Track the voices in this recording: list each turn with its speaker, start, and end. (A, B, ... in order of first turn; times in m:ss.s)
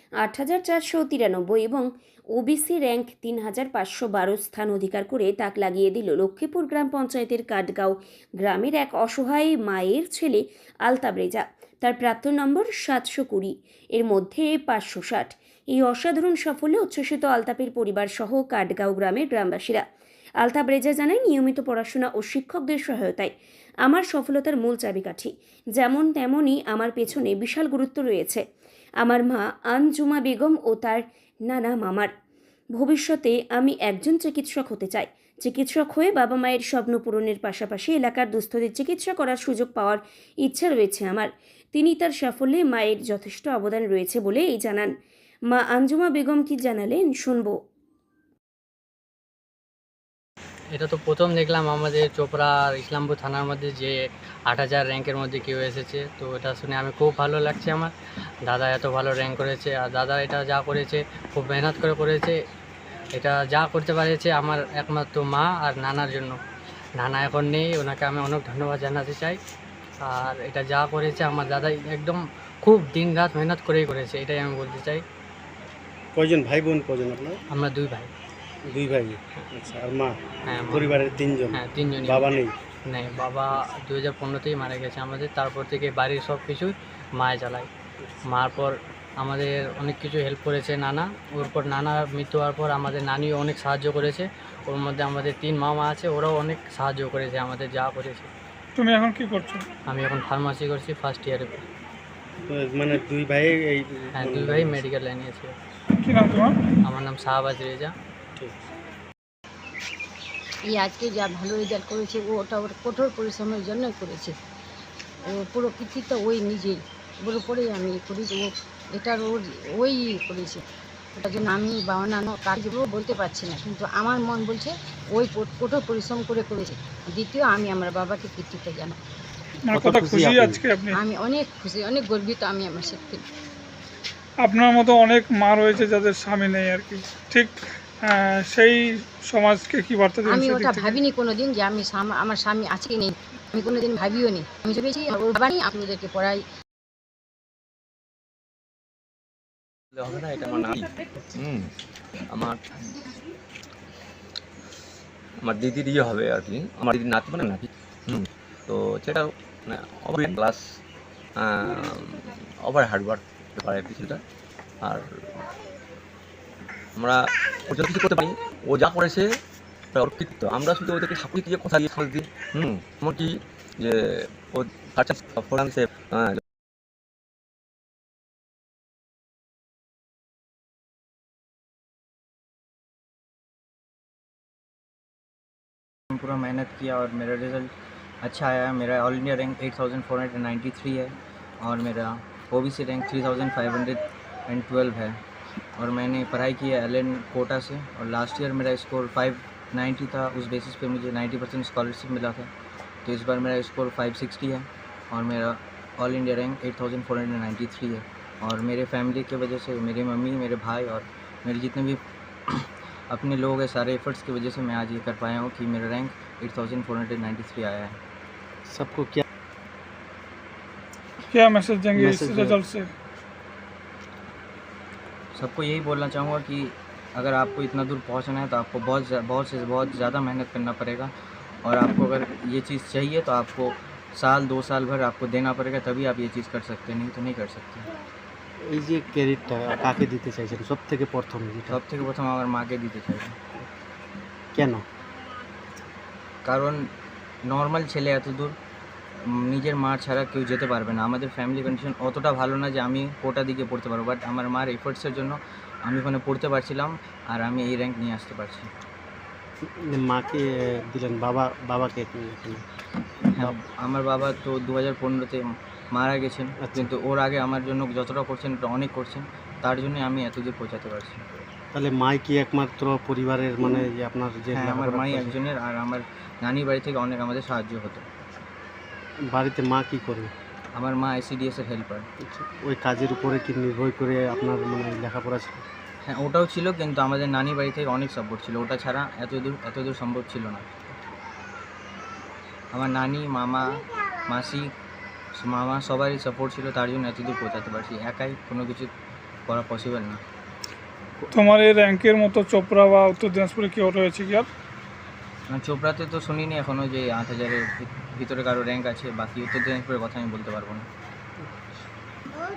0:00.2-0:19.8 A
0:20.4-0:23.3 A
0:23.9-0:28.4 A
0:29.0-0:32.1 A
0:32.8-0:44.9 A
0:45.5-0:47.6 A
0:50.7-0:54.0 B
0:54.5-0:57.9 B
0:58.5-1:02.4 B
1:03.2-1:06.4 B
1:07.0-1:09.4 B
1:10.0-1:15.0 B
1:16.2-1:17.4 C
1:17.5-1:18.1 B
1:18.7-1:20.2 C
1:20.5-1:21.0 B
1:20.7-1:22.6 C
1:21.5-1:27.7 B
1:28.3-1:38.3 B
1:38.8-1:39.6 D
1:39.9-1:41.7 B
1:42.5-1:44.8 C
1:44.2-1:45.5 B
1:46.0-1:46.6 D
1:46.8-1:47.9 B
1:50.7-1:54.4 E
1:55.2-2:00.6 E
2:01.2-2:09.0 E
2:09.7-2:11.0 D
2:09.7-2:10.6 C
2:11.0-2:13.2 E
2:14.4-2:21.0 D
2:20.3-2:26.4 E
2:29.9-2:31.7 F
2:32.3-2:32.6 F
2:35.4-2:40.6 F
2:41.4-2:44.2 F
2:44.8-2:45.1 F
2:47.0-2:49.2 F
2:49.9-2:56.4 F
3:06.1-3:07.7 G
3:08.2-3:15.2 G
3:15.8-3:22.5 G
3:23.0-3:32.0 G
3:32.5-3:37.9 G
3:38.7-3:39.2 C
3:41.3-3:42.9 D
3:41.9-3:42.6 C
3:45.4-3:51.1 G
3:51.6-3:57.9 G
3:58.7-4:01.8 C
4:01.7-4:03.3 G
4:04.5-4:04.8 C
4:06.4-4:06.8 G
4:07.4-4:08.6 G
4:09.4-4:18.7 G
4:19.8-4:22.6 C
4:23.4-4:31.2 G
4:26.6-4:26.9 C
4:31.7-4:35.4 C
4:34.5-4:38.0 G
4:39.3-4:40.3 C
4:40.8-4:42.1 G
4:42.2-4:45.6 C
4:46.1-4:50.7 G
4:52.7-4:53.8 G
4:54.3-4:54.7 G
4:55.4-4:58.9 G
4:59.5-5:00.2 G
5:01.3-5:04.5 D
5:05.5-5:10.9 G
5:11.4-5:11.8 C